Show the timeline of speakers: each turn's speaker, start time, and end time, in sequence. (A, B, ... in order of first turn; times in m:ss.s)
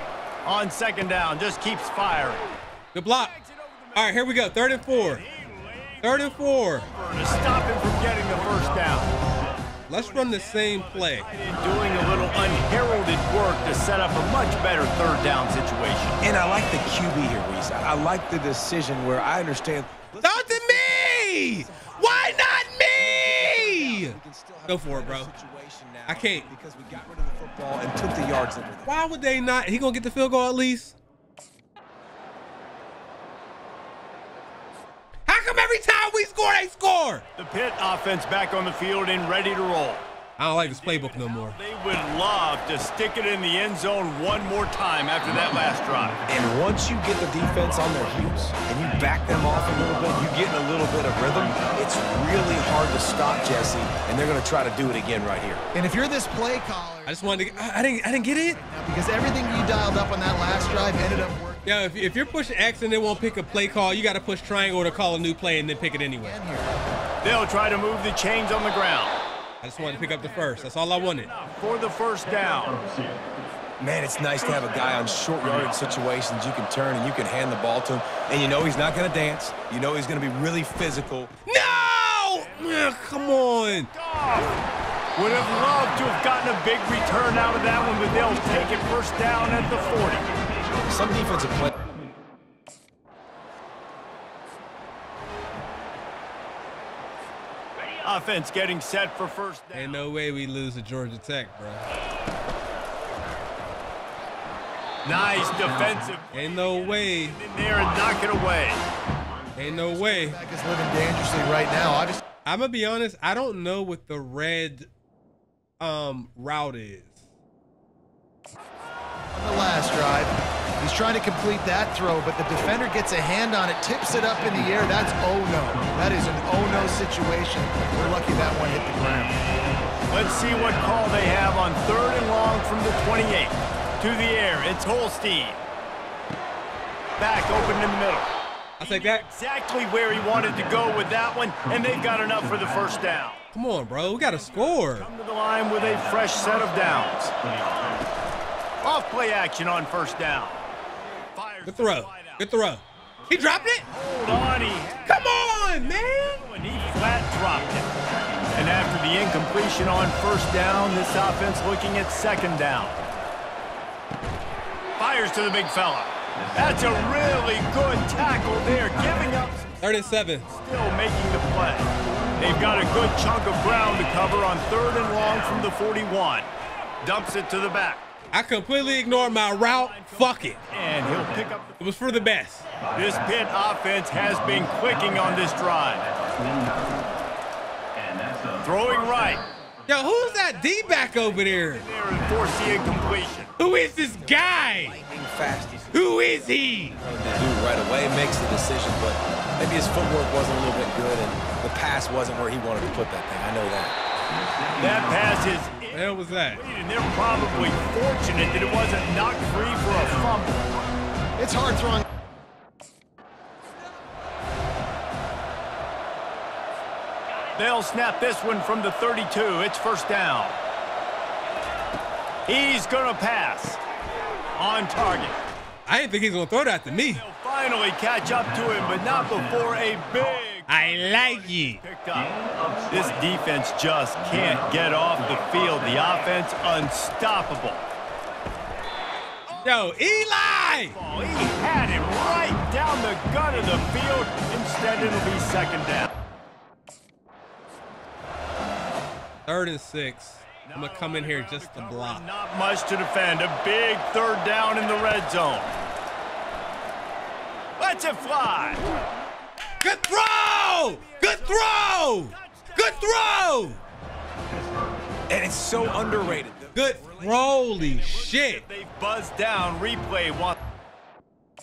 0:00.4-0:02.5 A
0:02.9-0:03.3 B
0:03.2-0:09.2 A
0:04.0-0:05.2 B
0:06.0-0:06.8 B
0:09.9-0:11.3 B
0:09.9-0:16.2 A
0:16.2-0:29.0 C
0:20.2-0:25.3 B
0:26.1-0:26.5 B
0:28.8-0:31.0 B
0:35.3-0:37.2 B
0:37.4-0:40.1 A
0:40.4-0:41.6 B
0:40.6-0:46.2 A
0:46.3-0:55.6 C
0:55.7-1:02.0 D
0:57.0-0:58.6 B
1:01.6-1:06.4 B
1:03.3-1:03.6 A
1:06.1-1:06.7 D
1:07.2-1:09.1 A
1:09.6-1:11.3 B
1:09.8-1:12.8 A
1:13.8-1:21.4 C
1:21.4-1:23.9 B
1:21.8-1:24.6 A
1:25.2-1:30.3 A
1:30.8-1:31.7 C
1:38.0-1:40.0 A
1:39.7-1:41.8 B
1:45.0-1:48.8 A
1:46.3-1:47.4 B
1:49.6-1:50.4 B
1:49.6-1:52.2 D
1:52.4-1:54.9 B
1:55.8-1:57.2 B
1:59.3-2:09.4 D
2:10.1-2:15.6 A
2:17.2-2:18.3 A
2:18.8-2:19.2 B
2:18.8-2:23.4 A
2:23.5-2:25.1 B
2:24.0-2:27.3 A
2:28.8-2:30.6 A
2:31.3-2:32.5 A
2:31.6-2:33.9 B
2:33.3-2:37.9 A
2:35.0-2:36.5 B
2:38.5-2:43.0 A
2:45.0-2:56.5 A
2:49.8-2:50.4 B
2:57.0-2:58.1 A
2:58.3-3:00.6 B
2:59.4-3:01.8 A
3:01.8-3:02.7 B
3:02.9-3:06.1 A
3:08.6-3:09.4 A
3:09.9-3:11.8 B
3:11.6-3:13.5 A
3:13.6-3:15.0 B
3:14.1-3:23.9 C
3:15.9-3:17.0 B
3:24.8-3:30.6 A
3:25.9-3:26.6 B
3:31.4-3:32.0 D
3:37.6-3:40.6 A
3:42.5-3:43.8 A
3:44.6-3:45.4 A
3:45.8-3:47.2 B
3:46.9-3:57.8 A
3:50.7-3:51.8 B
3:59.5-4:06.1 A
3:59.6-4:01.0 B
4:09.4-4:12.2 B
4:10.6-4:15.7 A
4:17.8-4:18.8 A
4:19.8-4:23.8 B
4:19.8-4:23.7 A
4:25.3-4:27.5 C
4:26.7-4:28.6 B
4:27.4-4:30.6 A